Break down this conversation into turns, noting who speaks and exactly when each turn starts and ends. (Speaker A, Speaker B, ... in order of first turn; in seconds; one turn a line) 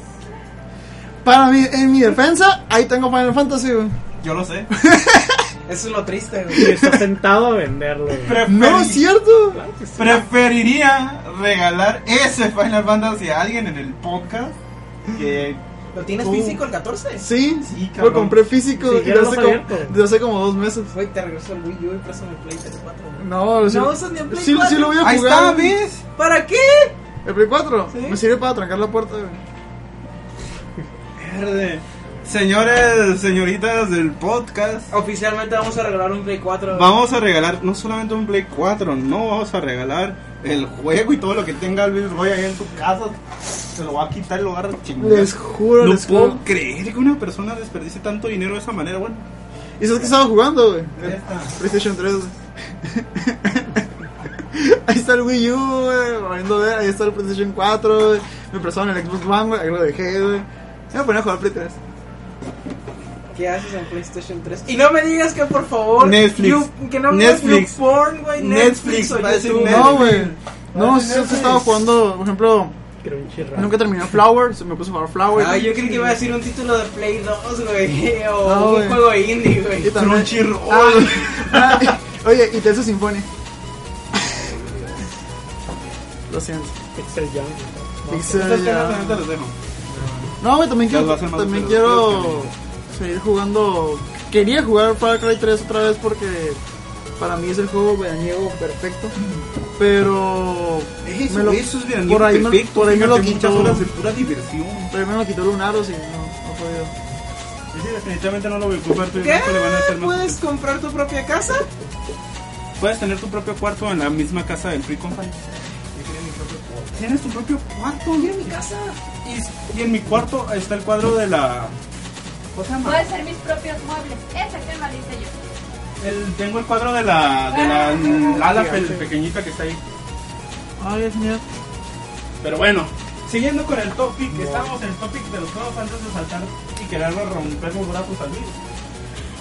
Speaker A: 1.2-4.0
Speaker B: 4.2-4.7
Speaker A: 4.7-5.5
Speaker C: 5.6-6.7
Speaker A: 6.5-7.0
Speaker D: 6.5-8.4
Speaker B: 8.2-9.0
Speaker A: 8.4-9.6
Speaker D: 9.5-10.2
Speaker B: 9.9-14.5
Speaker B: 15.1-15.6
Speaker C: 15.9-17.3
Speaker B: 16.2-16.6
Speaker A: 17.2-20.9
Speaker B: 17.6-18.4
Speaker D: 18.7-20.0
Speaker C: 20.9-25.1
Speaker A: 23.2-25.8
Speaker B: 25.0-26.0
Speaker C: 26.1-26.9
Speaker A: 27.2-29.4
Speaker C: 27.9-28.2
Speaker B: 31.2-34.9
Speaker C: 34.9-36.9
Speaker B: 36.7-49.2
Speaker A: 45.0-46.4
Speaker A: 49.8-53.9
Speaker B: 51.0-51.5
Speaker A: 54.5-61.8
Speaker C: 63.3-70.2
Speaker B: 66.0-67.8
Speaker B: 68.3-71.7
Speaker A: 69.6-72.7
Speaker D: 73.0-73.9
Speaker A: 73.5-76.2
Speaker C: 75.3-80.0
Speaker A: 78.4-79.1
Speaker A: 79.8-83.3
Speaker B: 79.9-82.0
Speaker A: 84.1-84.5
Speaker A: 86.3-86.8
Speaker D: 87.0-88.5
Speaker A: 88.1-89.2
Speaker B: 88.3-89.5
Speaker C: 89.9-90.3
Speaker A: 90.4-96.6
Speaker B: 90.9-92.5
Speaker A: 97.2-99.2
Speaker A: 99.8-103.9
Speaker B: 101.0-104.9
Speaker A: 104.9-106.9
Speaker B: 107.7-110.4
Speaker C: 109.1-111.7
Speaker B: 112.8-115.4
Speaker B: 116.0-116.3
Speaker C: 116.0-116.9
Speaker B: 116.9-118.5
Speaker C: 118.2-119.0
Speaker B: 119.2-121.7
Speaker B: 122.5-123.1
Speaker E: 122.8-125.3
Speaker B: 126.0-129.8
Speaker E: 127.5-128.4
Speaker D: 128.4-129.1
Speaker A: 130.8-131.4
Speaker B: 132.4-138.6
Speaker D: 134.4-134.7